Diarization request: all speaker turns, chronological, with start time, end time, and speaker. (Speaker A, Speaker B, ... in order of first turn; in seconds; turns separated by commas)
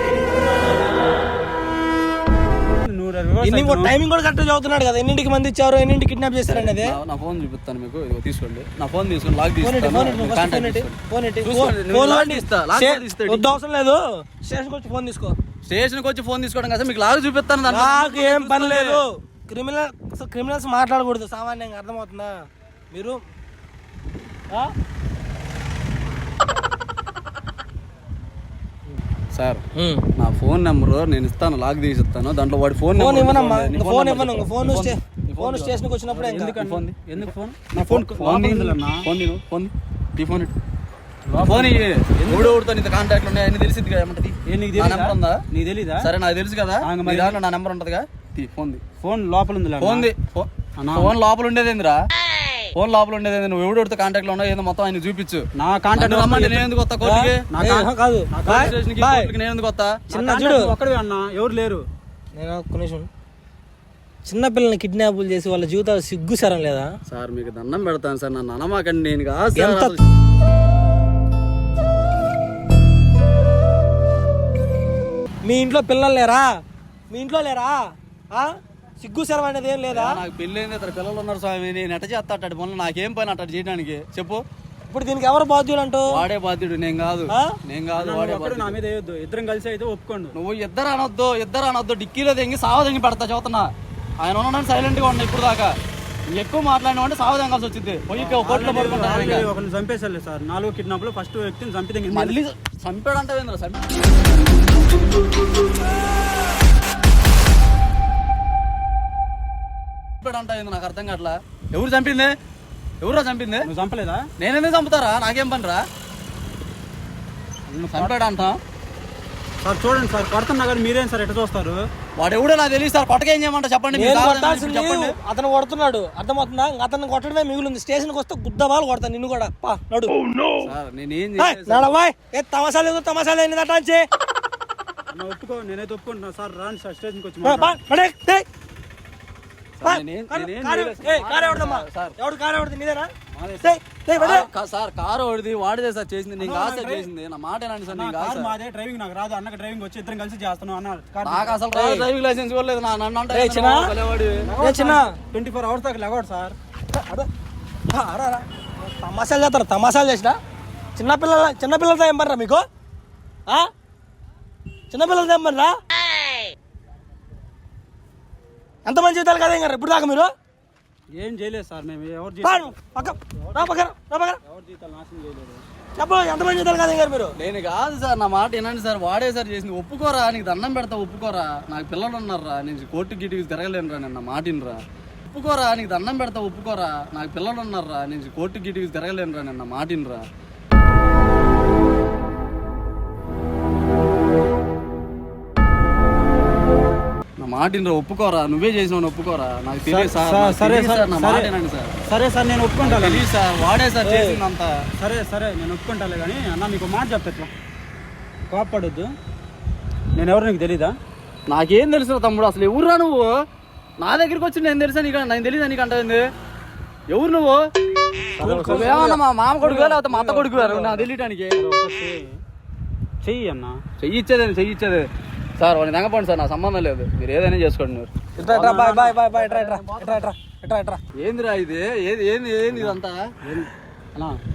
Speaker A: 2.8-3.9, Speaker B: 3.4-7.0, Speaker C: 6.5-13.5, Speaker B: 9.6-15.3, Speaker C: 15.7-19.0, Speaker B: 17.7-22.4, Speaker B: 22.9-23.2, Speaker C: 29.4-29.6, Speaker B: 29.8-30.0, Speaker C: 30.2-35.9, Speaker B: 33.0-36.6, Speaker A: 36.1-39.0, Speaker C: 36.6-37.3, Speaker C: 37.9-40.5, Speaker A: 41.3-42.6, Speaker C: 41.5-45.4, Speaker A: 44.5-46.1, Speaker C: 46.0-48.8, Speaker A: 46.9-47.4, Speaker A: 49.0-50.1, Speaker C: 49.8-52.0, Speaker A: 50.8-51.1, Speaker C: 52.8-55.5, Speaker A: 55.6-56.7, Speaker C: 56.0-57.5, Speaker B: 57.0-59.3, Speaker A: 57.5-58.7, Speaker C: 58.5-60.1, Speaker B: 60.1-60.7, Speaker A: 60.1-61.8, Speaker B: 62.4-63.1, Speaker B: 64.2-66.9, Speaker C: 67.1-70.0, Speaker B: 69.5-70.0, Speaker B: 75.5-76.5, Speaker B: 77.1-77.8, Speaker B: 79.0-80.2, Speaker C: 79.9-84.4, Speaker B: 84.9-86.2, Speaker C: 86.1-88.8, Speaker A: 88.0-90.3, Speaker C: 90.3-95.7, Speaker C: 96.3-99.5, Speaker A: 98.2-102.4, Speaker C: 102.1-103.9, Speaker C: 110.2-112.3, Speaker C: 113.0-113.7, Speaker A: 113.7-114.3, Speaker C: 114.4-115.8, Speaker A: 117.7-118.1, Speaker C: 117.9-118.6, Speaker A: 119.6-121.8, Speaker C: 122.2-125.2, Speaker B: 123.9-130.2, Speaker C: 130.6-131.9, Speaker B: 131.4-134.0, Speaker A: 135.1-137.8, Speaker B: 137.4-138.4, Speaker C: 139.8-142.2, Speaker B: 139.8-143.1, Speaker A: 143.3-143.8, Speaker B: 143.6-144.5, Speaker C: 144.2-148.5, Speaker A: 146.4-147.1, Speaker A: 147.9-151.5, Speaker C: 151.2-154.4, Speaker B: 151.7-152.1, Speaker B: 153.3-153.9, Speaker A: 154.4-156.6, Speaker B: 154.6-155.1, Speaker B: 156.9-157.3, Speaker B: 157.9-160.4, Speaker B: 161.0-162.7, Speaker B: 164.9-165.7, Speaker B: 168.9-170.3, Speaker A: 171.2-173.7, Speaker B: 172.4-174.4, Speaker A: 174.4-175.6, Speaker B: 176.0-177.3, Speaker C: 177.4-190.2, Speaker C: 197.4-201.9, Speaker A: 199.9-201.5, Speaker A: 202.1-203.2, Speaker C: 202.8-204.8, Speaker B: 204.0-204.4, Speaker A: 205.0-207.5, Speaker A: 208.5-209.1, Speaker A: 210.2-211.0, Speaker C: 211.5-213.3, Speaker C: 214.0-216.2, Speaker C: 217.1-217.6, Speaker A: 218.4-222.3, Speaker C: 218.4-221.6, Speaker B: 218.6-219.9, Speaker A: 223.2-223.8, Speaker C: 224.0-225.1, Speaker C: 225.6-230.3, Speaker B: 228.4-231.0, Speaker A: 228.6-229.1, Speaker C: 231.2-233.2, Speaker A: 232.7-234.4